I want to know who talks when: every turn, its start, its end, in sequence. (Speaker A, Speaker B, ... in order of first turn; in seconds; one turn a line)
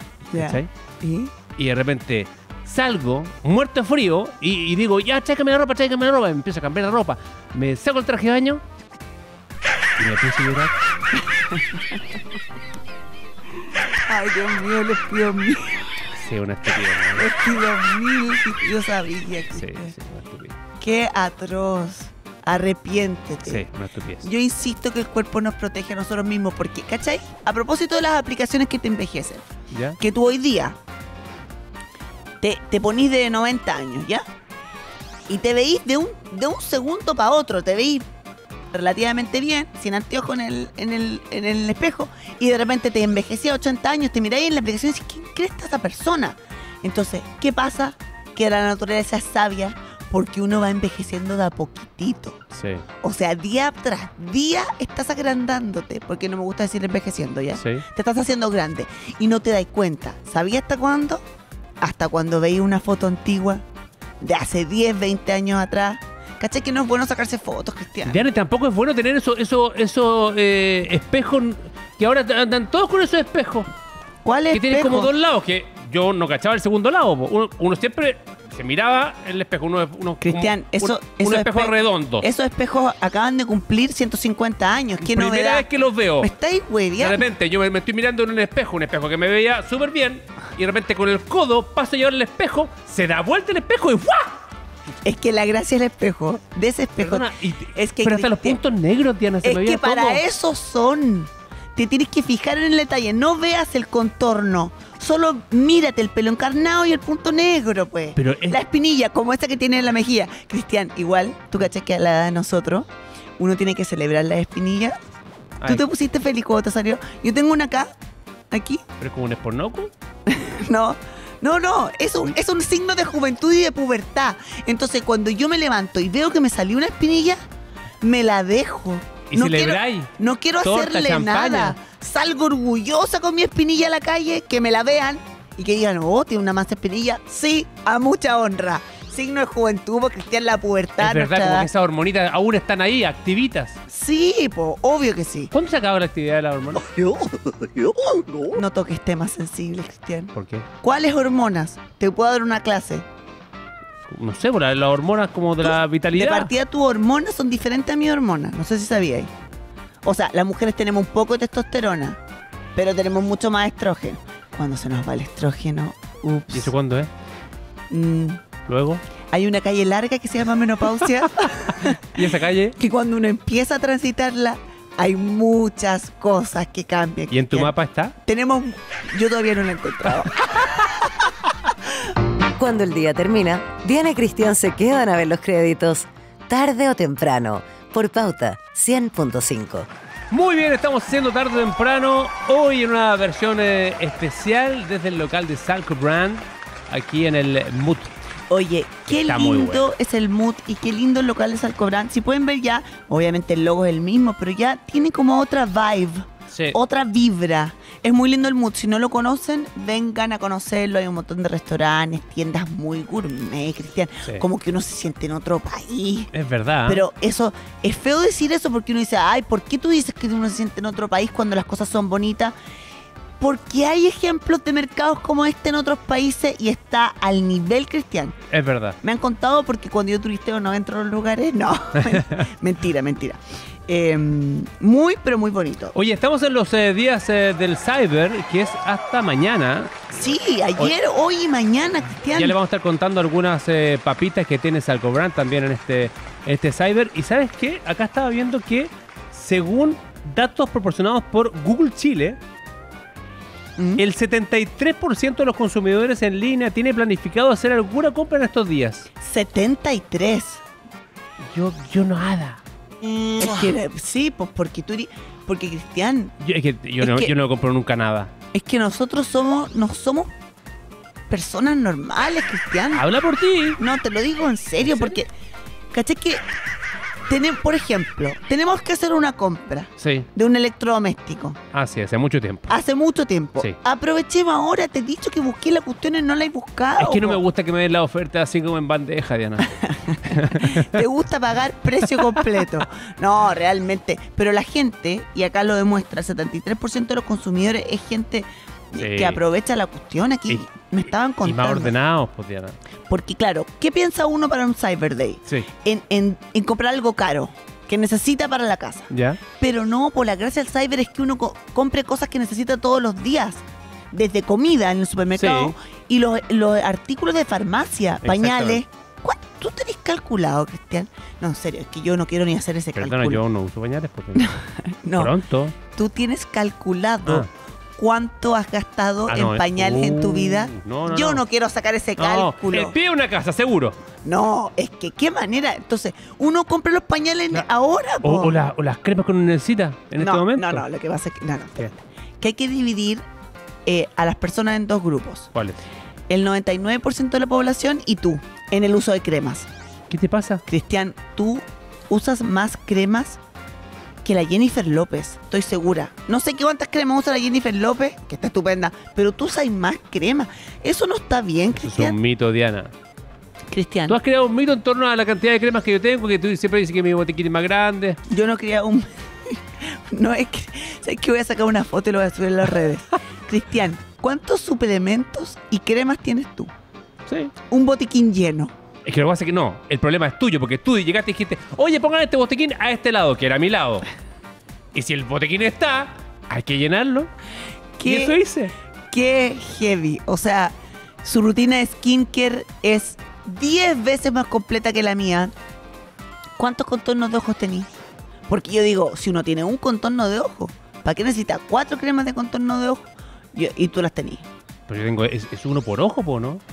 Speaker A: 0.3-1.3
Speaker B: 0.3-0.7
Speaker B: 1.6-8.6
Speaker B: 10.0-10.7
Speaker A: 11.3-12.0
Speaker A: 13.8-16.0
Speaker B: 16.2-17.3
Speaker A: 17.1-19.9
Speaker B: 19.6-20.6
Speaker A: 20.8-23.7
Speaker B: 23.5-24.3
Speaker A: 24.2-29.5
Speaker B: 29.7-30.0
Speaker A: 30.0-30.8
Speaker A: 32.4-34.2
Speaker A: 35.3-38.1
Speaker A: 38.7-52.4
Speaker B: 52.5-52.9
Speaker A: 53.0-61.2
Speaker B: 57.6-57.8
Speaker A: 61.8-63.6
Speaker A: 64.2-68.2
Speaker B: 68.0-73.7
Speaker A: 74.2-75.1
Speaker B: 74.5-82.3
Speaker A: 80.2-85.7
Speaker B: 85.0-86.3
Speaker A: 86.2-87.2
Speaker B: 87.0-94.3
Speaker A: 95.0-98.6
Speaker B: 97.0-100.2
Speaker A: 99.4-112.9
Speaker B: 108.2-108.6
Speaker A: 113.4-115.0
Speaker A: 115.7-117.9
Speaker A: 118.5-118.8
Speaker B: 119.0-119.9
Speaker A: 120.3-127.4
Speaker A: 128.0-141.7
Speaker B: 129.3-130.1
Speaker B: 130.6-131.8
Speaker B: 141.0-143.8
Speaker A: 143.9-145.5
Speaker B: 145.5-146.9
Speaker A: 146.8-153.1
Speaker B: 150.3-150.7
Speaker B: 154.1-156.5
Speaker A: 155.6-159.3
Speaker A: 160.0-162.2
Speaker A: 162.8-166.7
Speaker B: 166.5-167.1
Speaker A: 167.9-168.4
Speaker B: 168.7-169.0
Speaker A: 169.3-172.2
Speaker B: 171.7-172.8
Speaker A: 172.8-181.2
Speaker B: 177.3-178.1
Speaker C: 182.6-189.9
Speaker B: 190.3-198.1
Speaker A: 198.5-216.3
Speaker B: 199.1-199.9
Speaker B: 216.3-217.0
Speaker A: 216.9-222.5
Speaker A: 223.4-228.4
Speaker B: 228.5-229.0
Speaker A: 229.0-235.9
Speaker B: 235.9-240.2
Speaker A: 240.2-242.6
Speaker B: 242.3-252.4
Speaker A: 253.8-254.0
Speaker B: 254.0-259.1
Speaker A: 259.2-260.6
Speaker B: 261.5-262.6
Speaker A: 263.4-266.4
Speaker B: 266.4-268.3
Speaker A: 267.0-267.3
Speaker A: 268.5-270.3
Speaker A: 271.3-273.0
Speaker B: 272.9-273.8
Speaker A: 273.8-275.3
Speaker B: 274.8-275.2
Speaker A: 275.9-276.4
Speaker A: 277.3-281.6
Speaker B: 280.0-280.3
Speaker B: 281.7-282.7
Speaker A: 282.7-287.4
Speaker B: 287.0-291.0
Speaker A: 289.8-301.9
Speaker B: 299.0-299.4
Speaker B: 301.4-302.8
Speaker A: 303.1-323.4
Speaker B: 309.1-309.4
Speaker B: 315.4-315.8
Speaker B: 318.2-318.8
Speaker B: 323.0-324.5
Speaker A: 324.4-325.3
Speaker B: 325.2-325.8
Speaker A: 325.9-332.9
Speaker B: 329.3-331.4
Speaker B: 332.2-334.0
Speaker A: 334.2-338.6
Speaker B: 338.2-340.9
Speaker A: 340.2-343.2
Speaker A: 343.9-345.5
Speaker B: 345.5-345.8
Speaker A: 346.3-349.7
Speaker B: 350.1-350.6
Speaker A: 350.7-353.4
Speaker A: 354.2-362.2
Speaker B: 361.8-362.9
Speaker A: 363.7-364.2
Speaker B: 364.1-368.2
Speaker A: 368.3-376.7
Speaker B: 377.3-377.5
Speaker A: 377.7-378.7
Speaker B: 379.1-384.1
Speaker B: 384.9-387.3
Speaker A: 388.0-388.4
Speaker B: 388.0-388.7
Speaker A: 389.1-395.5
Speaker A: 396.6-397.9
Speaker A: 398.5-404.4
Speaker B: 404.9-406.6